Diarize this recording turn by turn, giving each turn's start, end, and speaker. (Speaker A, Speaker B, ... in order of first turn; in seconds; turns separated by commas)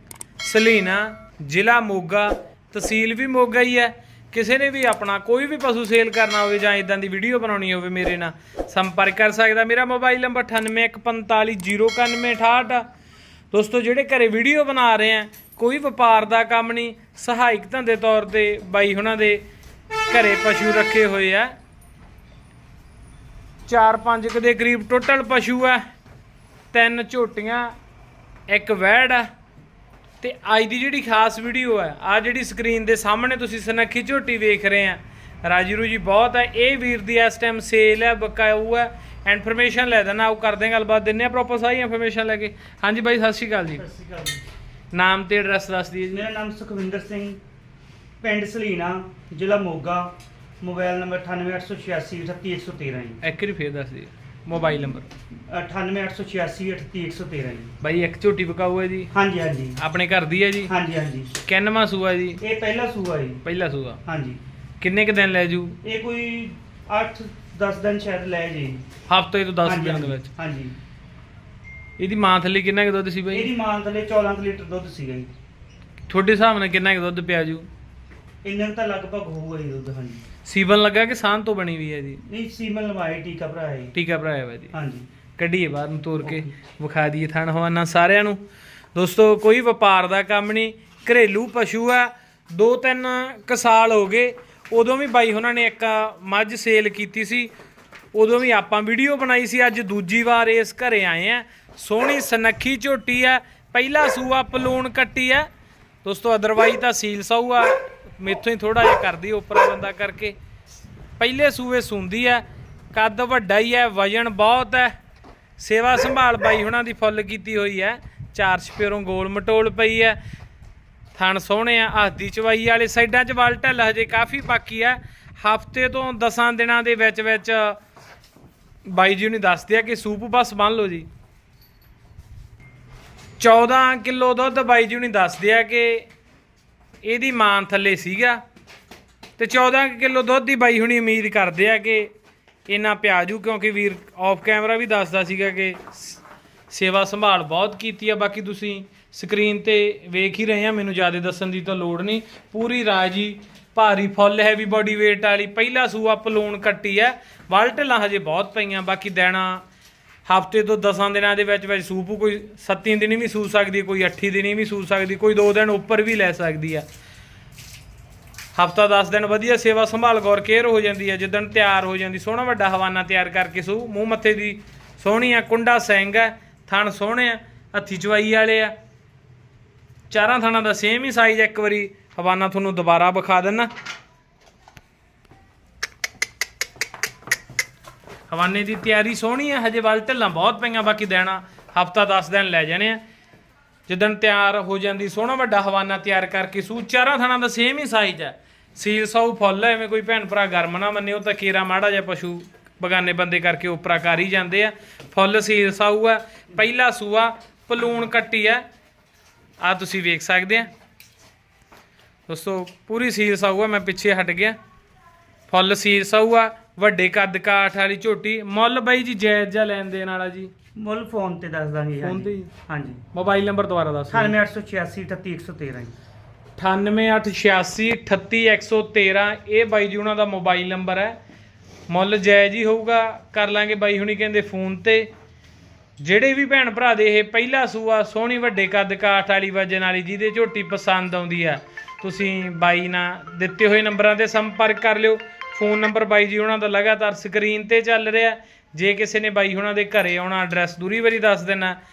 Speaker A: 0.4-12.8, Speaker A: 13.5-19.4, Speaker A: 20.1-21.5, Speaker A: 23.7-25.8, Speaker A: 26.7-27.7, Speaker A: 28.5-29.3, Speaker A: 30.2-43.8, Speaker B: 43.8-44.4, Speaker A: 44.9-46.3, Speaker B: 46.1-47.4, Speaker B: 48.2-50.1, Speaker B: 50.6-53.2, Speaker A: 53.2-55.1, Speaker B: 55.5-57.7, Speaker A: 57.8-59.1, Speaker B: 59.1-59.8, Speaker A: 59.8-60.7, Speaker B: 60.7-61.3, Speaker A: 61.4-62.4, Speaker B: 62.4-63.4, Speaker A: 63.4-64.0, Speaker B: 64.1-64.4, Speaker A: 64.8-65.8, Speaker B: 65.8-68.8, Speaker A: 69.1-70.3, Speaker B: 69.7-70.7, Speaker A: 72.0-73.5, Speaker B: 73.3-75.3, Speaker A: 76.1-77.7, Speaker B: 78.4-80.3, Speaker A: 80.5-82.2, Speaker B: 82.2-83.9, Speaker A: 83.9-84.7, Speaker B: 84.7-85.1, Speaker A: 85.4-88.4, Speaker A: 89.0-97.5, Speaker A: 98.1-105.5, Speaker A: 106.0-110.4, Speaker A: 111.2-115.0, Speaker A: 115.6-120.2, Speaker A: 121.1-127.8, Speaker A: 128.8-131.1, Speaker A: 133.4-136.1, Speaker A: 137.0-138.4, Speaker A: 139.4-142.1, Speaker A: 142.7-159.6, Speaker A: 160.3-166.8, Speaker A: 168.6-178.7, Speaker A: 180.1-183.7, Speaker A: 188.3-193.0, Speaker A: 193.9-208.6, Speaker A: 209.6-210.7, Speaker A: 212.3-214.6, Speaker A: 215.5-220.5, Speaker B: 220.8-223.0, Speaker A: 222.0-222.5, Speaker A: 223.1-224.3, Speaker B: 224.1-226.0, Speaker A: 226.6-231.2, Speaker A: 231.9-235.1, Speaker A: 236.0-251.8